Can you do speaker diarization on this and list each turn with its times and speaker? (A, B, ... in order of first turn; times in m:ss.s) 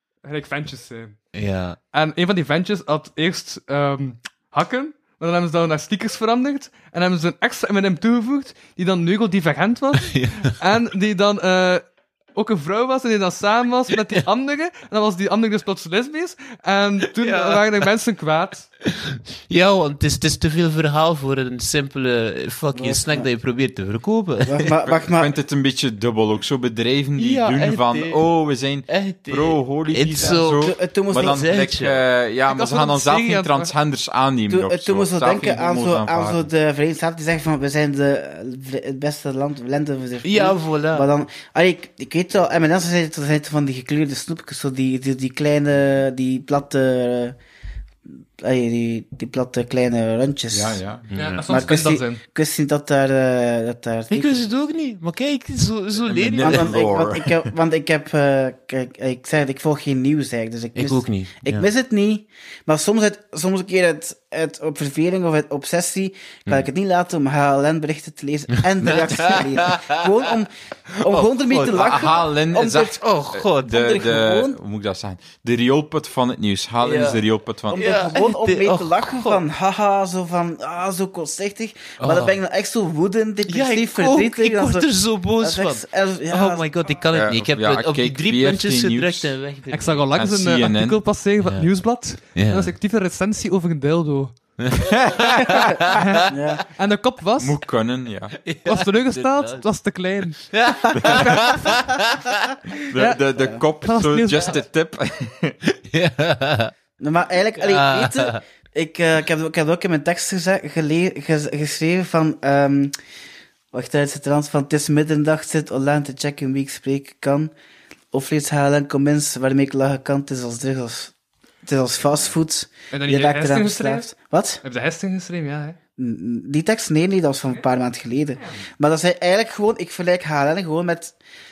0:00.2-0:01.2 A
0:01.3-0:01.8 B
0:01.9-0:18.7 A
0:09.9-0:10.5 B
0:17.2-0:17.9 B
0:18.9-0:24.7 B
0:22.7-0:23.3 C
0:24.4-0:25.3 C
0:24.9-0:36.5 D
0:27.2-0:28.2 B
0:28.9-0:32.0 B
0:30.2-0:31.4 C
0:32.5-0:33.7 A
0:34.5-0:47.4 C
0:40.2-0:41.1 B
0:48.4-0:50.8 C
0:50.5-0:51.1 D
0:51.1-0:51.7 B
0:51.2-0:52.2 A
0:51.5-0:54.4 C
0:54.1-0:56.7 B
0:56.0-0:57.5 D
0:56.4-1:13.0 C
1:00.8-1:01.7 B
1:08.8-1:10.0 B
1:11.0-1:12.1 B
1:11.7-1:17.9 D
1:13.0-1:13.8 B
1:13.6-1:14.6 C
1:16.8-1:19.4 B
1:17.7-1:24.9 C
1:22.0-1:22.4 B
1:23.4-1:30.1 B
1:25.4-1:26.7 C
1:27.1-1:29.3 D
1:29.7-1:34.4 A
1:30.1-1:31.0 D
1:31.4-1:31.7 B
1:32.3-1:32.7 B
1:34.6-1:36.1 B
1:34.9-1:35.6 D
1:35.9-1:37.6 A
1:36.3-1:36.6 C
1:37.4-1:38.4 D
1:38.4-1:39.7 B
1:38.7-1:40.5 A
1:40.5-1:42.6 B
1:41.0-1:41.3 D
1:41.1-1:41.7 A
1:42.9-1:45.6 D
1:42.9-1:43.2 A
1:43.4-1:43.6 C
1:43.8-1:44.6 A
1:45.8-1:46.7 B
1:47.0-1:52.9 C
1:47.6-1:48.4 B
1:53.7-1:57.5 C
1:58.1-2:01.1 C
2:01.6-2:04.6 C
2:02.9-2:04.1 A
2:04.6-2:05.8 A
2:06.0-2:11.2 C